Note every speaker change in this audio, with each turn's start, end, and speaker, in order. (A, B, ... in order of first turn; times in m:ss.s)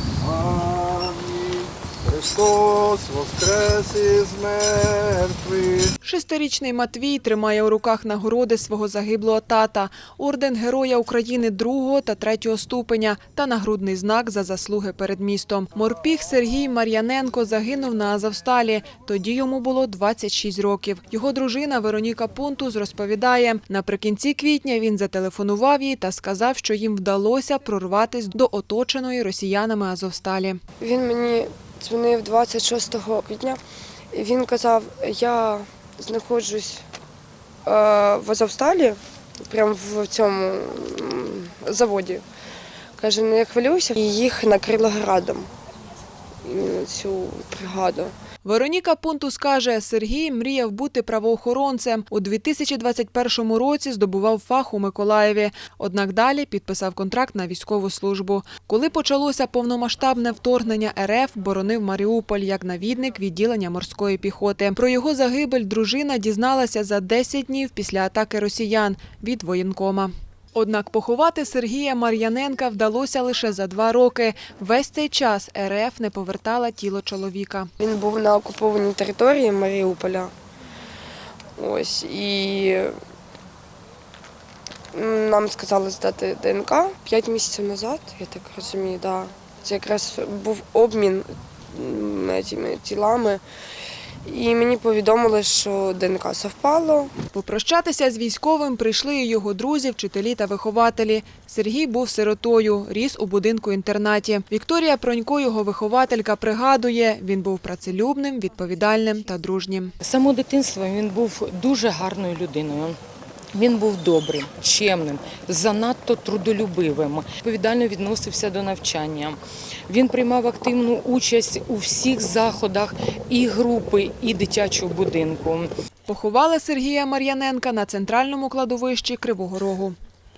0:00.2-0:05.9 A
0:06.0-0:30.6 B
0:30.8-0:33.6 C
0:34.1-0:36.8 C
0:37.6-0:42.2 C
0:43.0-0:45.5 C
0:46.4-0:48.1 C
0:48.4-1:17.7 B
1:17.8-1:20.3 C
1:21.6-1:23.0 C
1:24.9-1:33.4 C
1:34.2-1:37.1 C
1:37.3-1:49.9 B
1:50.0-1:53.0 D
1:53.5-2:05.7 D
2:06.1-2:10.0 B